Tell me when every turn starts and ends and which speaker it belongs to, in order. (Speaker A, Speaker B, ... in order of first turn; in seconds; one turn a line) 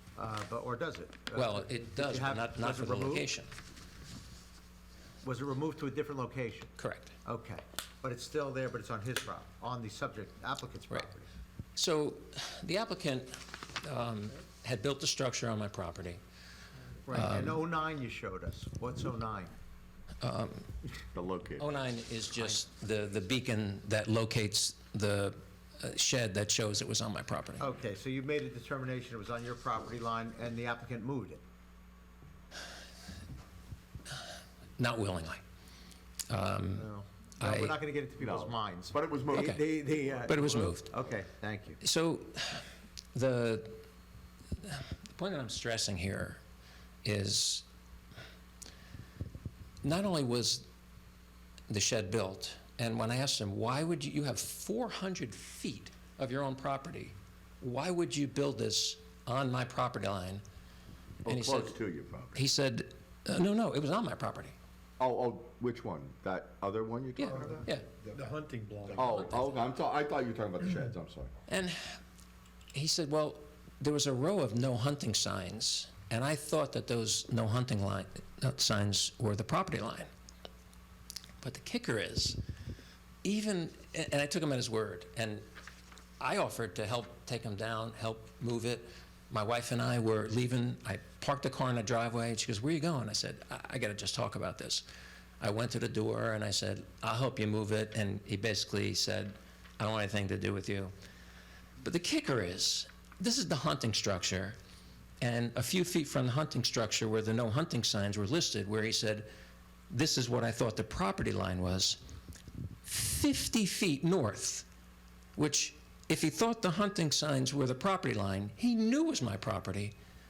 Speaker A: 0.2-3.3
Speaker B: 1.3-3.5
Speaker A: 5.2-11.3
Speaker B: 6.8-7.2
Speaker B: 11.8-16.2
Speaker A: 17.1-19.5
Speaker B: 17.1-17.6
Speaker B: 20.2-20.7
Speaker C: 21.1-21.7
Speaker B: 21.6-27.7
Speaker A: 27.6-31.4
Speaker B: 34.8-35.4
Speaker B: 36.3-37.8
Speaker A: 36.8-41.8
Speaker C: 38.2-39.6
Speaker B: 39.3-39.6
Speaker B: 40.3-40.9
Speaker B: 41.8-43.8
Speaker B: 44.6-46.4
Speaker B: 47.0-47.6
Speaker B: 49.8-50.6
Speaker B: 51.7-60.4
Speaker B: 61.2-61.8
Speaker C: 61.2-62.5
Speaker B: 62.3-64.6
Speaker C: 65.0-67.5
Speaker B: 67.2-67.9
Speaker A: 67.3-69.2
Speaker C: 69.0-71.3
Speaker B: 69.2-69.5
Speaker B: 71.5-72.0
Speaker B: 72.7-80.1
Speaker B: 81.4-82.4
Speaker B: 83.2-85.5
Speaker B: 86.2-94.9
Speaker B: 95.4-100.9
Speaker B: 101.8-104.6
Speaker B: 105.2-109.3
Speaker B: 109.9-112.0
Speaker B: 112.8-114.7
Speaker B: 115.4-119.9